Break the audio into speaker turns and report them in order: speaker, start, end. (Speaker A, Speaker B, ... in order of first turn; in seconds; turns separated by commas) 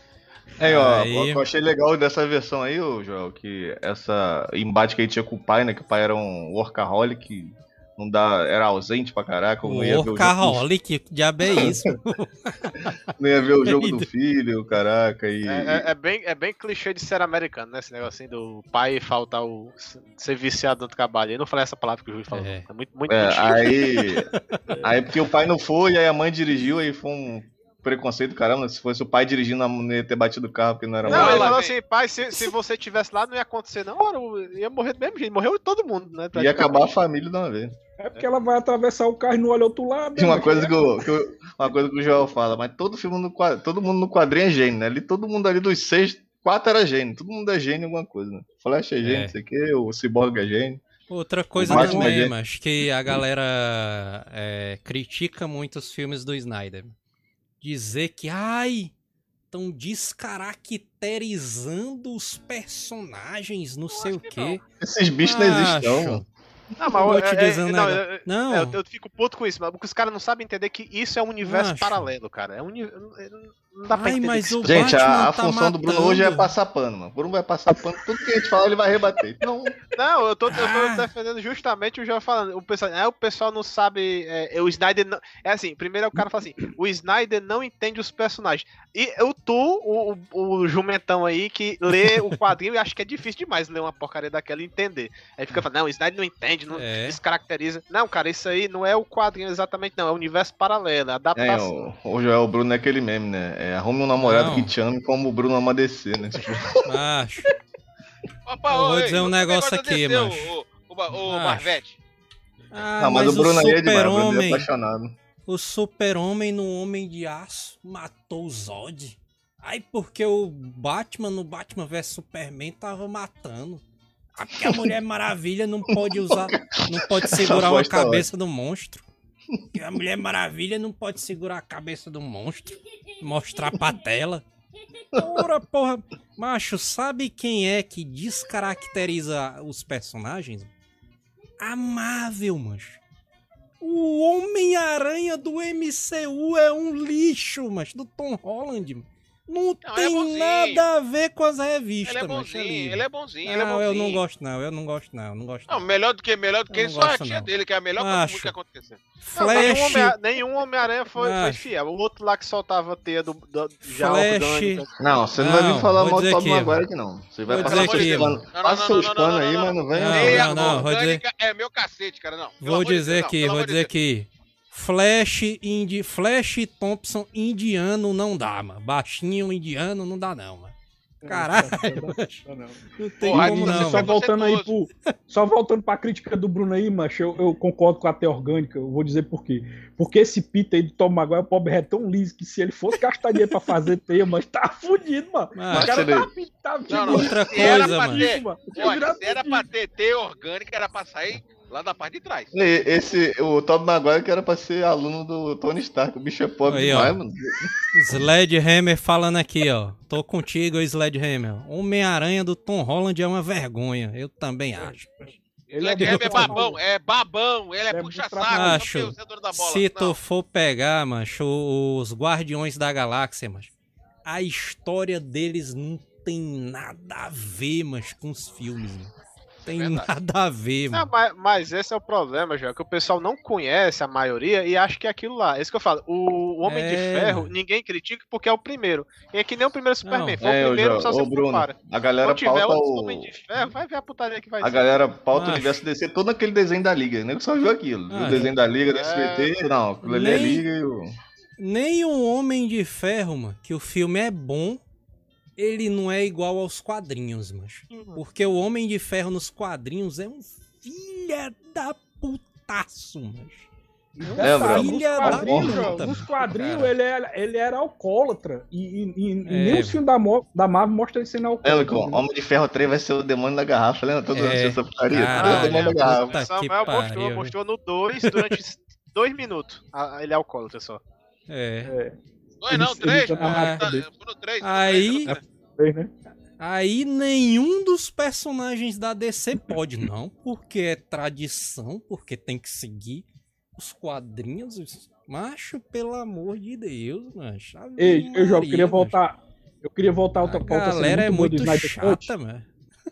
Speaker A: 0.6-1.4, Speaker B: 0.6-10.6, Speaker A: 9.6-13.1, Speaker B: 11.4-11.8, Speaker B: 13.2-15.9, Speaker A: 13.6-14.1, Speaker C: 15.5-24.2, Speaker A: 22.3-22.6, Speaker B: 23.1-24.3, Speaker A: 24.3-24.6, Speaker B: 24.8-31.6, Speaker C: 31.0-36.9, Speaker D: 31.1-31.7, Speaker B: 36.3-37.8, Speaker E: 38.0-41.0, Speaker B: 40.2-50.8, Speaker A: 49.0-49.3, Speaker A: 51.1-56.9, Speaker B: 51.5-52.3, Speaker A: 57.6-58.9, Speaker A: 59.5-64.6, Speaker D: 63.9-64.6, Speaker B: 64.8-66.2, Speaker A: 65.2-66.2, Speaker B: 66.8-67.1, Speaker C: 66.8-75.3, Speaker A: 66.9-68.8, Speaker A: 71.4-72.1, Speaker A: 73.9-76.5, Speaker B: 74.7-79.8, Speaker C: 79.9-101.7, Speaker A: 80.5-81.0, Speaker A: 96.7-97.2, Speaker B: 101.3-106.9, Speaker A: 104.2-104.7, Speaker A: 106.8-107.5, Speaker D: 108.5-112.0, Speaker A: 108.7-110.5, Speaker A: 111.2-111.8, Speaker A: 112.7-114.7, Speaker B: 113.0-115.1, Speaker A: 115.5-123.8, Speaker A: 124.3-129.0, Speaker B: 124.6-124.9, Speaker B: 125.9-128.3, Speaker A: 129.7-134.4, Speaker A: 135.1-140.7, Speaker B: 135.2-135.5, Speaker A: 141.6-143.0, Speaker A: 143.8-155.8, Speaker D: 149.8-150.9, Speaker D: 152.0-154.2, Speaker D: 155.7-159.0, Speaker A: 156.7-158.5, Speaker A: 159.2-160.2, Speaker C: 159.3-165.1, Speaker A: 161.2-161.7, Speaker A: 163.9-164.8, Speaker B: 165.0-170.8, Speaker A: 165.4-166.8, Speaker A: 167.5-168.5, Speaker D: 167.5-173.9, Speaker C: 167.6-168.0, Speaker A: 169.9-171.2, Speaker A: 172.6-180.7, Speaker E: 181.2-199.7, Speaker A: 181.2-184.1, Speaker D: 183.2-184.7, Speaker A: 195.5-195.9, Speaker B: 195.7-196.3, Speaker D: 196.9-202.5, Speaker A: 196.9-198.3, Speaker B: 202.5-208.2, Speaker A: 206.7-207.2, Speaker A: 207.9-215.3, Speaker E: 215.7-216.8, Speaker D: 215.7-220.2, Speaker A: 216.0-216.6, Speaker E: 217.9-218.8, Speaker A: 218.5-223.7, Speaker A: 224.2-229.1, Speaker A: 229.7-231.1, Speaker D: 229.8-230.1, Speaker C: 230.9-244.9, Speaker A: 236.7-237.5, Speaker A: 240.0-240.4, Speaker B: 240.4-243.3, Speaker B: 244.6-251.1, Speaker A: 245.3-245.8, Speaker A: 248.1-248.6, Speaker C: 248.7-249.6, Speaker A: 250.0-250.7, Speaker A: 251.6-254.8, Speaker A: 255.6-263.7, Speaker C: 257.9-258.2, Speaker E: 264.1-272.2, Speaker A: 264.4-266.9, Speaker B: 264.4-266.1, Speaker A: 269.4-270.0, Speaker B: 271.6-276.5, Speaker A: 274.3-277.5, Speaker C: 275.3-281.0, Speaker D: 275.4-275.7, Speaker A: 278.2-278.6, Speaker A: 281.5-281.9, Speaker E: 281.8-282.2, Speaker D: 282.6-285.4, Speaker E: 282.7-284.1, Speaker A: 283.3-283.9, Speaker A: 284.6-285.4, Speaker E: 285.8-286.1, Speaker A: 286.6-299.2, Speaker E: 298.0-302.3, Speaker A: 300.4-302.7